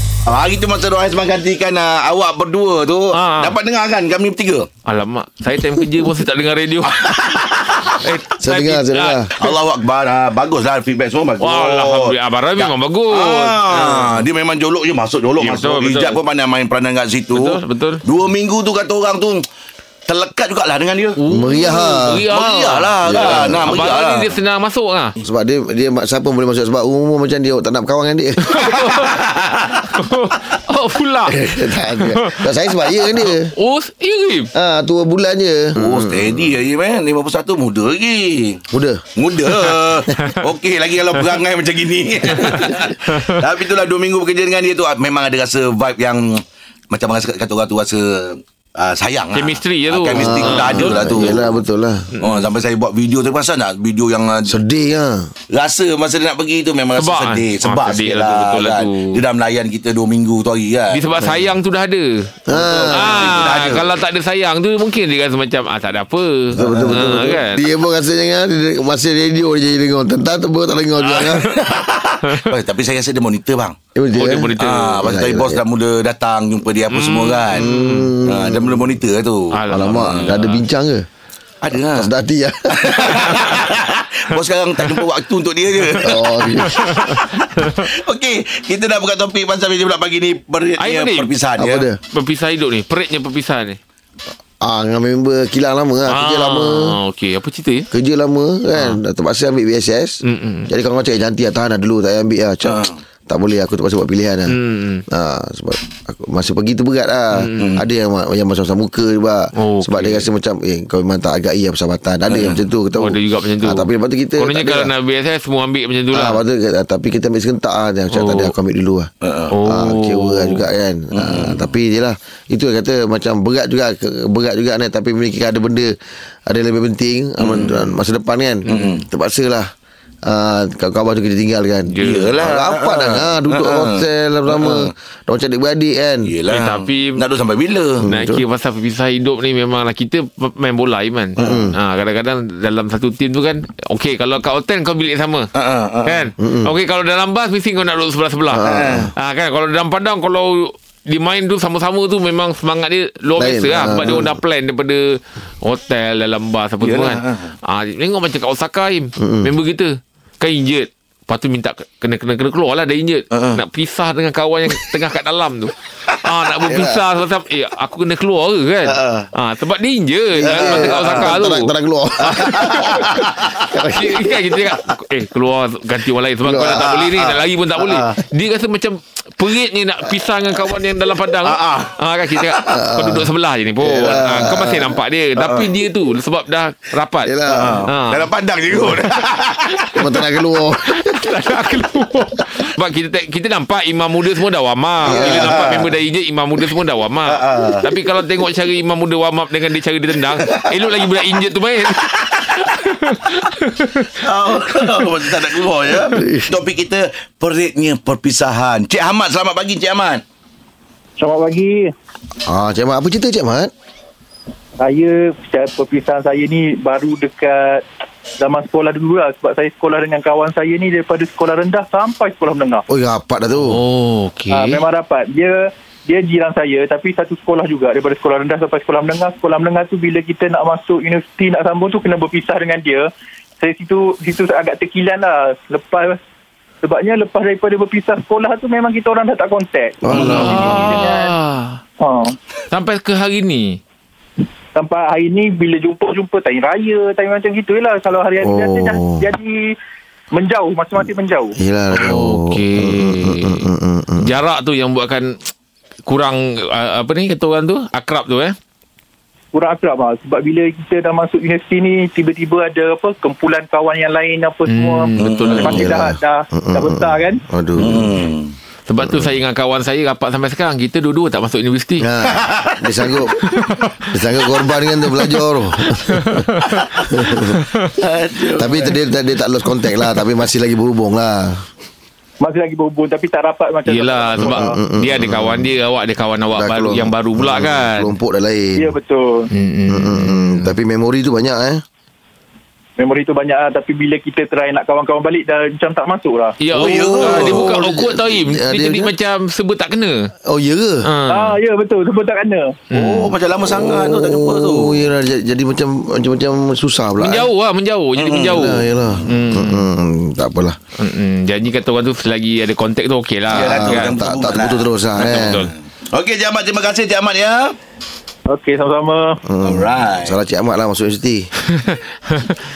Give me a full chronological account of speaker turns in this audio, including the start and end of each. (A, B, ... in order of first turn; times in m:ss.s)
0:00.3-0:04.7 A
0:03.2-0:03.6 B
0:04.9-0:07.0 B
0:06.8-0:08.0 A
0:08.0-0:09.5 B
0:08.4-0:09.3 C
0:09.4-0:19.4 A
0:11.4-0:14.2 B
0:15.4-0:16.2 B
0:17.3-0:18.0 B
0:20.1-0:21.2 A
0:21.2-0:25.2 B
0:21.3-0:22.3 C
0:22.3-0:24.4 A
0:23.0-0:23.7 C
0:25.2-0:28.4 C
0:28.4-0:29.2 B
0:28.6-0:29.9 A
0:29.9-0:32.4 B
0:31.3-0:33.5 C
0:33.0-0:34.5 B
0:34.6-0:36.5 C
0:35.8-0:38.6 A
0:38.7-0:39.0 C
0:39.2-0:51.6 A
0:39.6-0:40.4 B
0:42.3-0:43.3 B
0:49.3-0:51.5 B
0:50.1-0:52.1 C
0:52.1-0:52.4 B
0:52.2-0:54.5 A
0:54.5-0:55.3 C
0:55.5-1:01.0 A
0:57.0-0:59.2 B
1:00.9-1:02.3 B
1:02.5-1:03.8 C
1:02.5-1:03.9 A
1:02.9-1:07.6 B
1:06.5-1:11.5 C
1:11.1-1:13.8 A
1:12.2-1:12.5 B
1:14.0-1:15.6 C
1:14.2-1:15.0 B
1:14.6-1:17.7 A
1:16.9-1:18.2 B
1:17.5-1:19.0 C
1:18.2-1:20.4 A
1:19.5-1:20.6 B
1:19.7-1:21.1 C
1:21.6-1:22.1 A
1:21.8-1:23.4 C
1:22.8-1:31.9 A
1:23.3-1:23.6 B
1:25.9-1:27.7 B
1:26.0-1:27.0 C
1:30.8-1:31.3 B
1:31.6-1:32.0 C
1:32.1-1:33.8 B
1:34.6-1:37.0 C
1:36.1-1:37.9 B
1:37.9-1:44.6 C
1:38.7-1:39.0 B
1:40.2-1:40.7 B
1:42.6-1:43.0 A
1:44.5-1:45.0 B
1:45.1-1:54.9 C
1:47.4-1:47.7 B
1:47.5-1:47.9 A
1:49.6-1:50.3 B
1:52.3-1:52.7 A
1:53.0-1:56.4 B
1:56.1-1:59.1 C
1:58.1-1:58.5 B
1:59.2-1:59.5 A
1:59.5-2:00.6 B
1:59.6-2:05.9 C
2:01.1-2:01.7 A
2:06.5-2:09.7 C
2:07.4-2:07.9 A
2:08.6-2:09.0 B
2:08.7-2:09.0 A
2:10.3-2:16.3 C
2:11.9-2:12.3 B
2:12.0-2:14.9 A
2:16.3-2:18.1 A
2:16.5-2:17.2 B
2:18.0-2:18.4 C
2:18.1-2:25.5 B
2:21.4-2:21.6 A
2:21.4-2:21.8 C
2:25.5-2:26.3 A
2:26.1-2:53.0 B
2:26.4-2:26.7 C
2:28.5-2:29.1 C
2:28.6-2:29.1 A
2:33.4-2:34.4 C
2:36.8-2:37.5 A
2:39.2-2:39.5 C
2:43.3-2:43.6 A
2:46.6-2:47.0 C
2:48.8-2:49.3 C
2:50.4-2:54.6 C
2:50.4-2:51.4 A
2:52.3-2:53.5 A
2:53.9-3:07.3 B
2:56.4-2:56.9 C
2:56.7-2:58.0 A
3:01.4-3:02.8 A
3:02.7-3:03.3 C
3:03.8-3:05.0 C
3:05.4-3:05.7 A
3:07.2-3:07.9 C
3:07.5-3:09.9 A
3:07.9-3:08.3 B
3:09.8-3:10.1 B
3:09.9-3:11.3 C
3:10.8-3:24.1 B
3:15.1-3:15.7 C
3:15.1-3:16.0 A
3:17.3-3:17.8 A
3:20.4-3:20.7 A
3:22.0-3:22.7 A
3:24.2-3:30.2 A
3:26.1-3:26.5 C
3:31.2-3:31.9 D
3:32.5-3:33.7 C
3:34.8-3:37.8 D
3:38.4-3:42.8 D
3:42.9-3:43.8 C
3:43.6-3:44.8 B
3:44.5-3:53.1 D
3:53.6-3:56.2 D
3:56.8-4:01.3 D
4:00.0-4:00.6 C
4:00.1-4:01.8 B
4:02.0-4:02.3 D
4:02.7-4:03.8 B
4:04.8-4:09.7 D
4:08.4-4:09.3 C
4:10.3-4:11.6 D
4:11.6-4:14.3 C
4:11.9-4:13.7 B
4:14.2-4:15.5 B
4:16.1-4:18.6 B
4:19.5-4:27.4 D
4:24.7-4:25.9 B
4:25.2-4:25.9 A
4:25.6-4:28.2 C
4:27.8-4:28.6 A
4:28.9-4:32.1 B
4:29.0-4:29.4 C
4:32.0-4:33.3 C
4:32.3-4:33.6 A
4:33.3-4:34.1 B
4:34.1-4:37.6 C
4:35.2-4:37.8 B
4:37.9-4:39.0 A
4:38.6-4:41.7 C
4:42.4-4:44.7 D
4:43.9-4:48.1 B
4:44.4-4:45.7 C
4:46.5-4:48.9 C
4:48.8-4:49.5 D
4:49.5-4:50.7 B
4:49.9-4:51.8 C
4:53.0-4:56.9 D
4:56.6-5:00.3 B
4:56.8-4:57.7 A
4:57.1-4:59.1 C
5:00.5-5:01.1 C
5:01.0-5:01.6 B
5:01.3-5:02.8 D
5:02.9-5:03.3 B
5:02.9-5:05.0 A
5:03.6-5:07.5 C
5:07.2-5:09.9 B
5:08.2-5:09.3 A
5:08.4-5:10.8 C
5:11.0-5:14.1 B
5:13.5-5:15.7 C
5:13.5-5:17.7 A
5:15.2-5:15.7 B
5:18.5-5:19.4 D
5:19.5-5:21.5 C
5:19.6-5:20.4 A
5:21.9-5:22.5 B